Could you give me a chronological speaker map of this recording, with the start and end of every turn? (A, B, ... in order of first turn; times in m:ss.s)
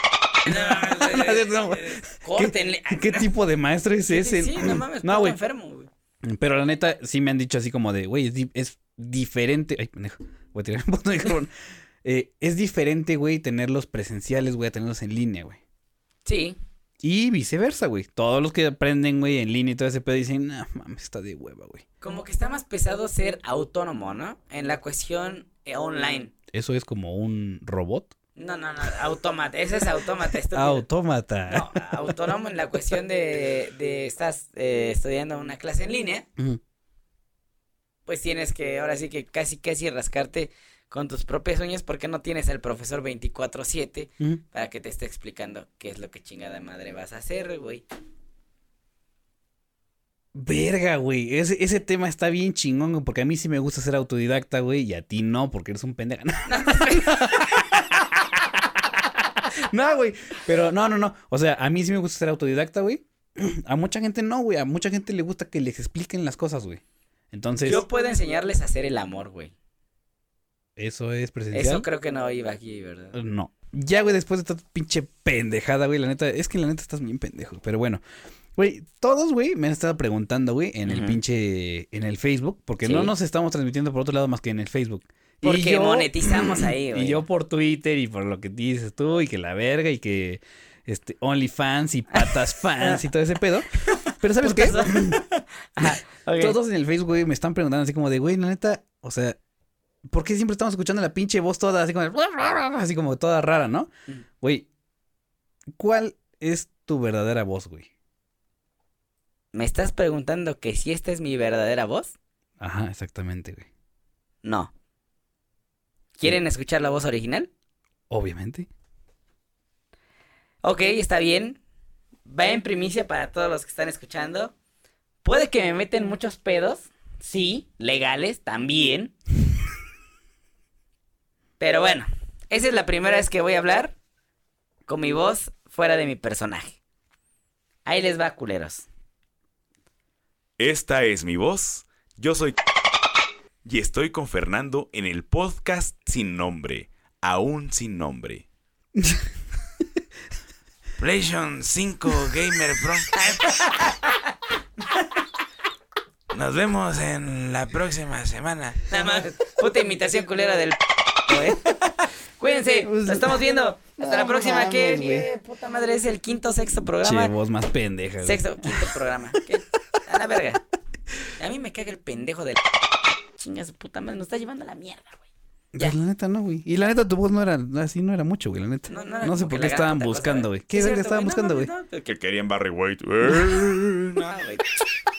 0:00.4-0:03.3 A
0:00.4-0:05.4 B
0:04.1-0:05.9 A
0:06.2-0:11.5 B
0:12.0-0:15.6 B
0:16.2-0:16.6 A
0:17.0-0:21.8 B
0:22.0-0:26.3 A
0:26.5-0:28.1 B
0:28.4-0:30.8 A
0:30.5-0:31.8 B
0:31.5-0:36.3 A
0:38.0-0:47.8 A
0:50.3-1:07.8 B
0:56.4-0:57.7 A
1:07.6-1:09.5 A
1:10.8-1:11.8 B
1:11.5-1:13.2 A
1:13.1-1:18.0 B
1:18.5-1:35.2 B
1:20.8-1:21.2 A
1:22.8-1:23.1 A
1:25.4-1:27.2 A
1:34.4-1:36.6 A
1:35.8-1:39.4 B
1:40.1-1:43.9 B
1:44.4-1:44.7 B
1:45.7-1:47.9 B
1:49.5-1:52.1 A
1:52.6-1:53.6 B
1:54.4-1:54.7 A
1:56.2-1:57.5 A
1:58.1-1:58.7 B
2:00.6-2:01.6 A
2:02.3-2:04.5 A
2:05.2-2:09.1 A
2:11.6-2:14.0 A
2:14.9-2:16.8 A
2:17.8-2:18.9 A
2:20.6-2:22.6 C
2:23.6-2:28.4 C
2:29.0-2:29.2 B
2:31.0-2:33.1 C
2:33.1-2:34.2 A
2:36.3-2:38.8 C
2:38.9-2:47.3 A
2:42.8-2:45.3 B
2:47.0-2:48.9 B
2:48.2-2:50.6 A
2:51.4-2:52.6 A
2:53.2-2:55.2 A
2:55.7-3:01.7 B
2:58.9-3:02.1 A
3:02.0-3:04.3 C
3:04.2-3:04.8 A